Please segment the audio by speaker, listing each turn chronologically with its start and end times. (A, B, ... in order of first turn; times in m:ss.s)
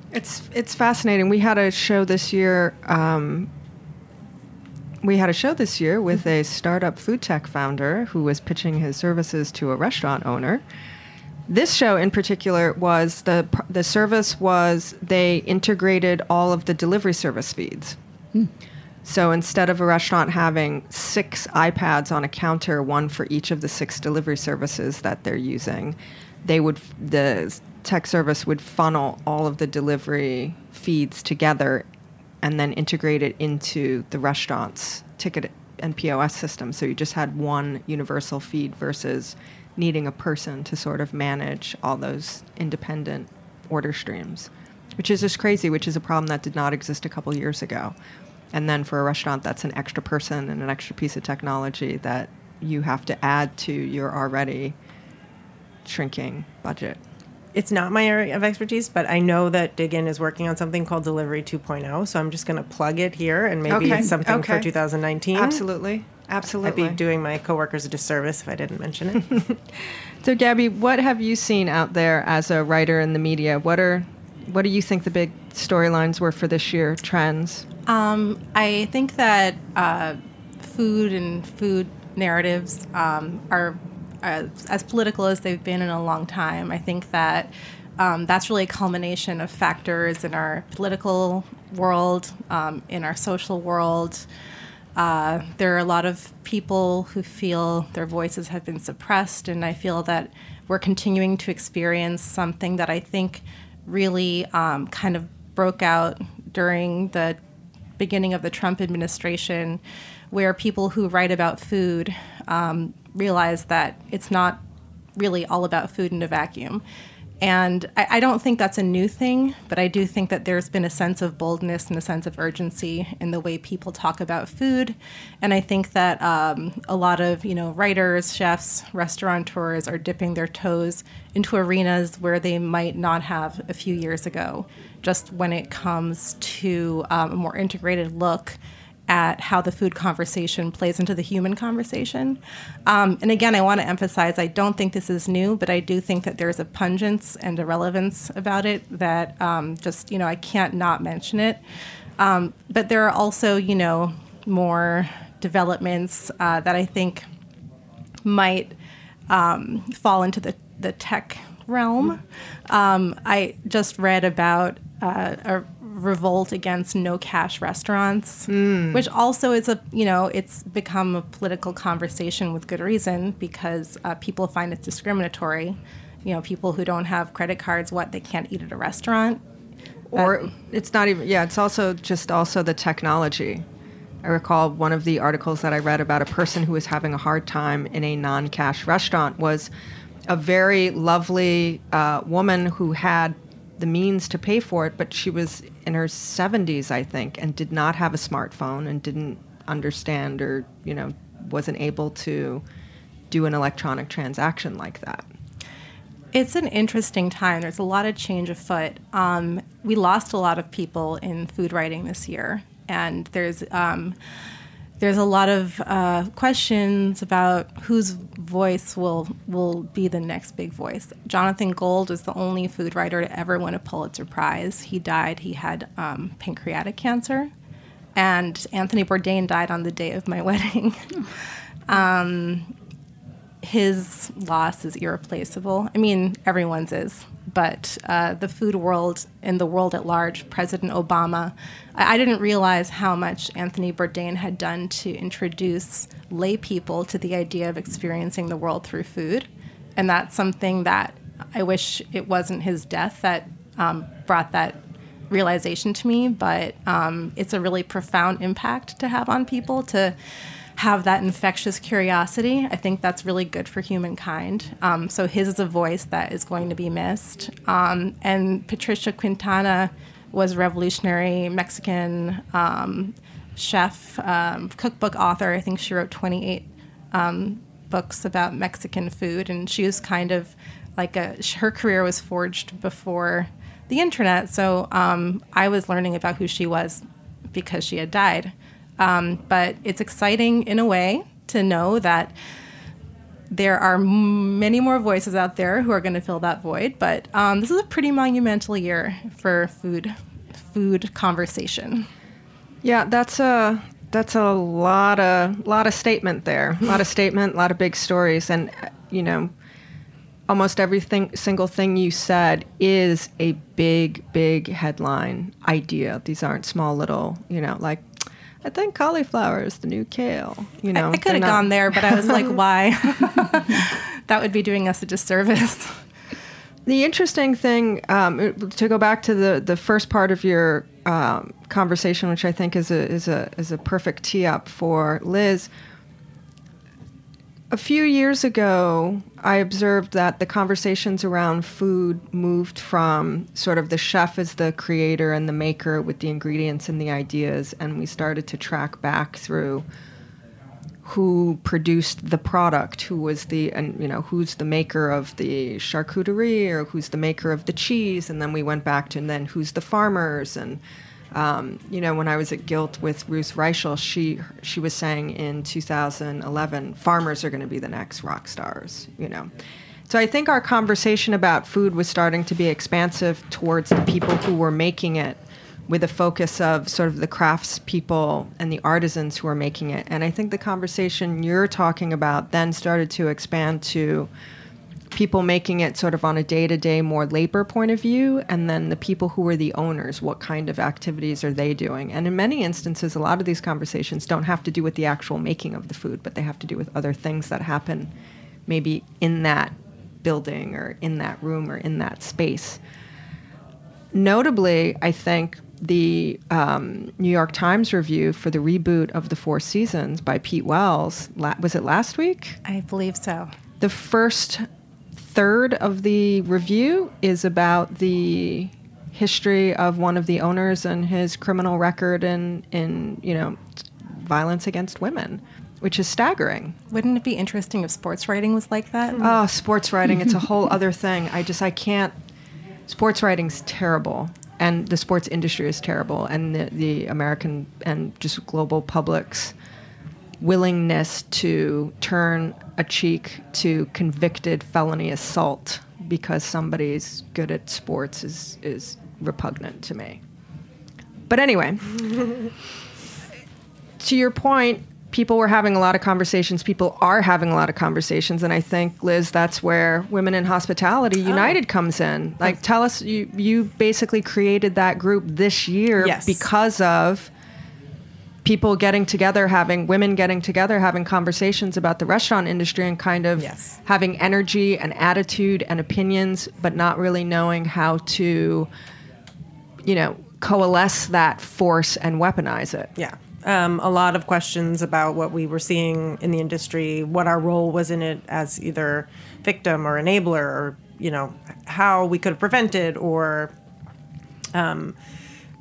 0:00.1-0:03.5 A
0:05.0-0:10.6 A
0:11.5-0:18.0 A
0:19.0-0:31.9 A
0:32.4-0:47.9 A
0:48.5-0:54.8 A
0:55.8-0:57.0 A
0:57.5-1:05.6 B
1:03.7-1:04.7 A
1:05.3-1:07.0 A
1:06.6-1:09.6 B
1:10.2-1:17.6 A
1:17.9-1:34.2 C
1:35.0-1:47.4 C
1:48.0-1:49.8 C
1:50.3-1:54.6 C
1:55.2-1:56.8 C
1:57.4-2:31.6 C
2:32.2-2:37.2 C
2:38.2-2:38.7 C
2:39.3-2:59.4 C
2:48.5-2:49.0 A
3:00.1-3:03.6 A
3:00.2-3:00.4 C
3:04.2-3:09.7 A
3:10.3-3:22.6 A
3:23.3-3:25.2 A
3:26.3-3:34.2 C
3:35.0-3:47.5 C
3:48.2-3:51.3 C
3:51.9-3:52.7 C
3:53.6-4:20.1 C
4:20.8-4:52.3 C
4:53.5-5:00.1 C
5:00.7-5:02.1 C
5:02.8-5:09.5 A
5:10.5-5:22.4 A
5:20.9-5:26.0 C
5:26.8-5:35.7 A
5:37.7-5:49.8 A
5:51.0-6:00.8 A
6:01.3-6:09.5 A
6:10.1-6:24.3 A
6:25.1-6:38.1 A
6:38.7-6:42.8 A
6:44.1-6:52.6 A
6:52.6-6:53.5 C
6:53.8-7:06.8 A
7:06.9-7:09.3 C
7:09.2-7:12.1 A
7:12.9-7:19.5 A
7:20.4-7:30.2 A
7:31.3-7:32.2 A
7:34.0-7:47.3 A
7:41.2-7:41.6 B
7:46.0-7:46.5 B
7:48.4-7:58.7 A
7:53.4-7:53.7 B
7:59.8-8:02.9 A
8:03.0-8:13.5 B
8:14.5-8:15.0 B